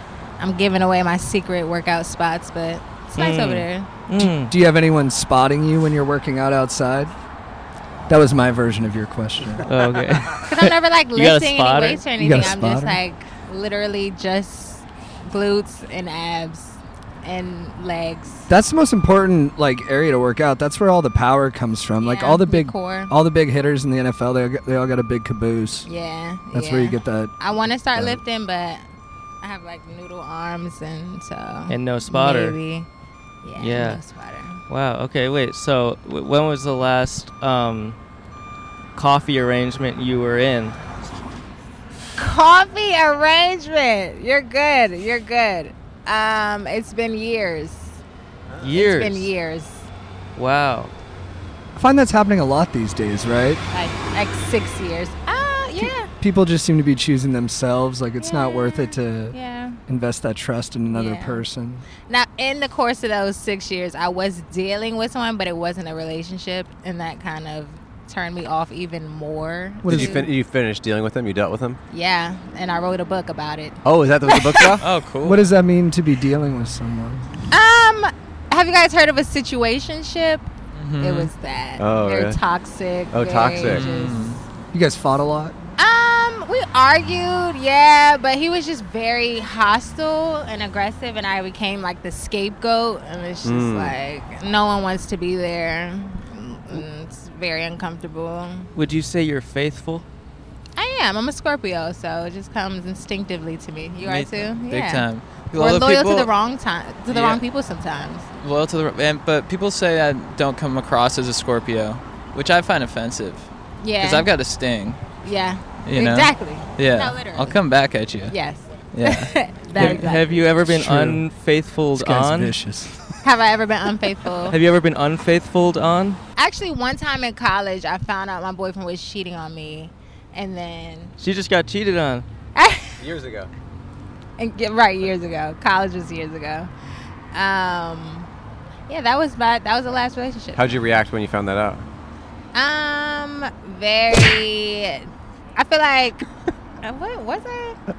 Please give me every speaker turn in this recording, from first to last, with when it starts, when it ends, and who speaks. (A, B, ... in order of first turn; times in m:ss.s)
0:00.4-0:03.9 A
0:03.1-0:04.5 B
0:04.2-0:07.1 C
0:08.1-0:09.7 C
0:09.6-0:12.0 B
0:10.4-0:18.5 A
0:12.1-0:13.0 C
0:18.5-0:25.9 C
0:22.0-0:23.1 A
0:25.8-0:28.8 A
0:26.5-0:27.3 C
0:27.9-0:28.2 C
0:29.4-0:32.9 A
0:31.7-0:32.6 B
0:33.4-0:34.6 A
0:33.6-0:34.0 B
0:34.7-0:38.0 B
0:38.9-0:40.8 B
0:42.2-0:48.0 A
0:48.6-0:49.3 B
0:48.7-0:49.9 A
0:50.3-0:50.9 B
0:51.8-0:53.6 C
0:53.7-0:56.1 A
0:55.8-0:59.3 C
0:58.2-0:59.8 A
0:59.9-1:01.8 C
1:00.9-1:01.4 A
1:02.1-1:10.3 A
1:09.8-1:10.2 C
1:09.9-1:11.8 D
1:11.9-1:14.8 A
1:13.8-1:14.8 D
1:14.8-1:15.5 E
1:15.2-1:17.3 C
1:17.5-1:20.5 A
1:20.7-1:21.3 E
1:21.0-1:24.4 A
1:21.8-1:22.4 D
1:23.1-1:23.9 D
1:23.6-1:24.4 E
1:24.7-1:25.5 C
1:25.8-1:38.7 A
1:33.4-1:33.9 D
1:38.7-1:40.0 B
1:40.8-1:48.2 A
1:44.0-1:46.3 E
1:47.1-1:47.4 E
1:48.4-1:55.0 E
1:53.8-1:54.3 A
1:55.2-1:57.6 A
1:55.8-1:58.3 E
1:58.3-2:00.4 A
1:58.9-1:59.3 E
1:59.8-2:02.6 B
2:00.6-2:01.2 C
2:01.9-2:03.0 C
2:03.2-2:04.6 A
2:04.5-2:06.2 B
2:06.4-2:11.1 A
2:11.2-2:12.2 B
2:12.5-2:13.0 A
2:13.0-2:13.5 D
2:14.4-2:16.7 A
2:17.3-2:18.3 A
2:18.9-2:20.8 A
2:20.6-2:21.8 D
2:22.5-2:26.2 A
2:26.8-2:27.8 A